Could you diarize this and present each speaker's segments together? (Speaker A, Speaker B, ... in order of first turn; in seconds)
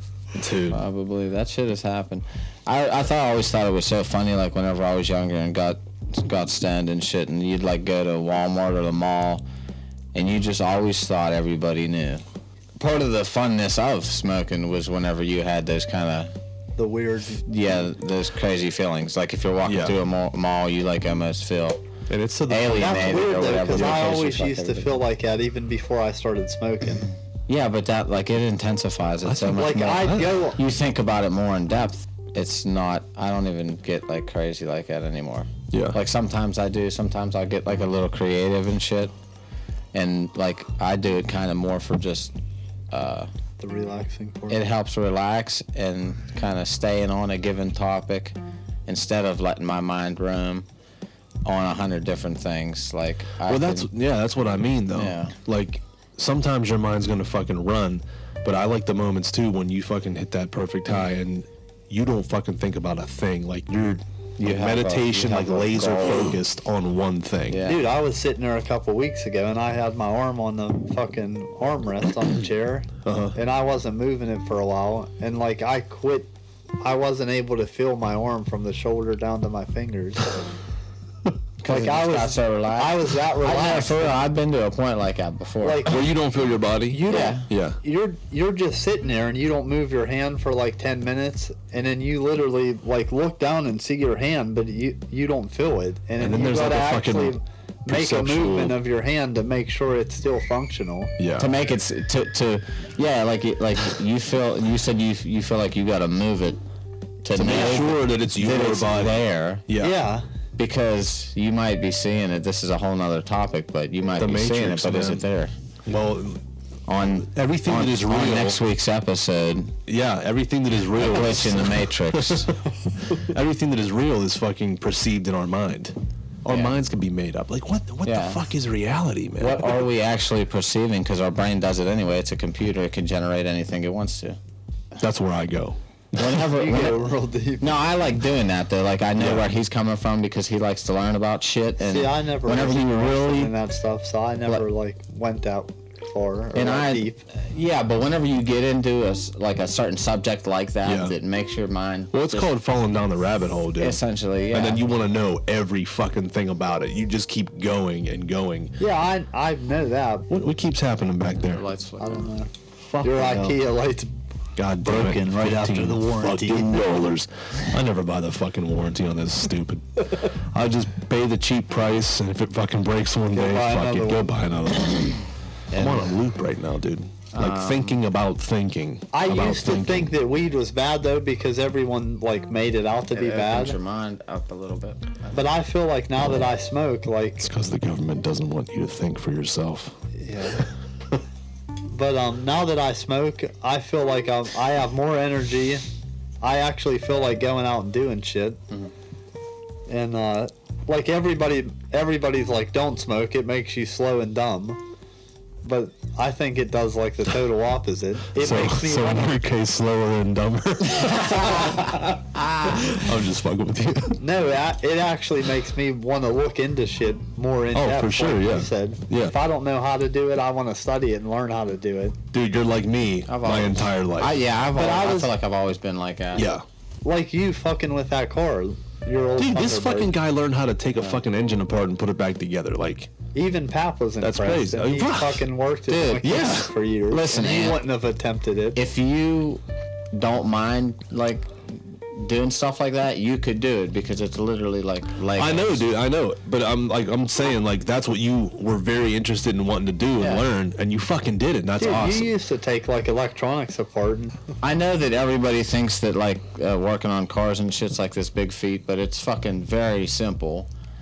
Speaker A: 0.3-0.8, 19.6-20.0, 22.1-24.1, 29.2-30.3, 35.7-36.0, 53.4-67.6, 73.0-73.3, 85.8-87.8, 96.2-98.8, 101.2-101.5, 107.3-110.0, 114.2-115.2, 115.8-116.4, 117.2-118.6, 119.9-122.6, 123.1-129.9, 135.0-136.4, 139.2-139.5, 150.8-151.1, 152.1-154.0, 154.5-158.8, 160.3-161.6, 162.8-163.6, 164.6-180.1, 187.4-189.9, 190.6-191.1, 208.3-211.7, 212.7-214.2, 217.7-219.3, 222.3-224.3, 226.3-226.6, 229.4-233.1, 234.2-235.4, 236.2-236.7, 245.4-252.3
Speaker B: 0.7-9.4, 10.1-12.2, 12.8-16.3, 17.4-21.8, 22.5-25.0, 27.5-39.1, 39.9-42.3, 42.9-43.3, 44.5-48.4, 48.9-50.6, 51.4-53.9, 54.9-55.3, 64.4-66.4, 67.5-67.8, 81.6-86.0, 87.1-87.5, 101.4-106.6, 107.2-109.6, 110.6-115.5, 116.9-119.7, 120.9-122.5, 126.5-126.7, 128.0-128.4, 129.4-134.4, 136.1-143.5, 146.5-152.5, 153.8-154.9, 161.5-162.3, 177.3-178.0, 183.1-185.5, 211.2-213.0, 223.3-226.6, 235.9-237.8, 238.8-239.6, 240.1-241.5, 242.1-245.9, 250.2-250.4, 254.6-260.7
Speaker C: 16.8-17.4, 22.7-27.1, 29.6-30.6, 43.6-44.6, 67.6-76.3, 76.8-80.4, 81.7-84.2, 85.6-86.0, 86.9-101.1, 109.8-110.2, 136.5-137.8, 141.8-147.2, 158.8-160.3, 162.0-162.5, 163.0-164.2, 164.8-166.8, 173.3-174.4, 175.7-176.2, 179.1-183.8, 185.3-187.5, 190.2-190.7, 191.9-195.8, 196.4-198.6, 199.9-204.8, 205.6-209.4, 214.2-222.2, 224.7-225.3, 227.0-230.2, 233.3-238.8, 251.8-254.3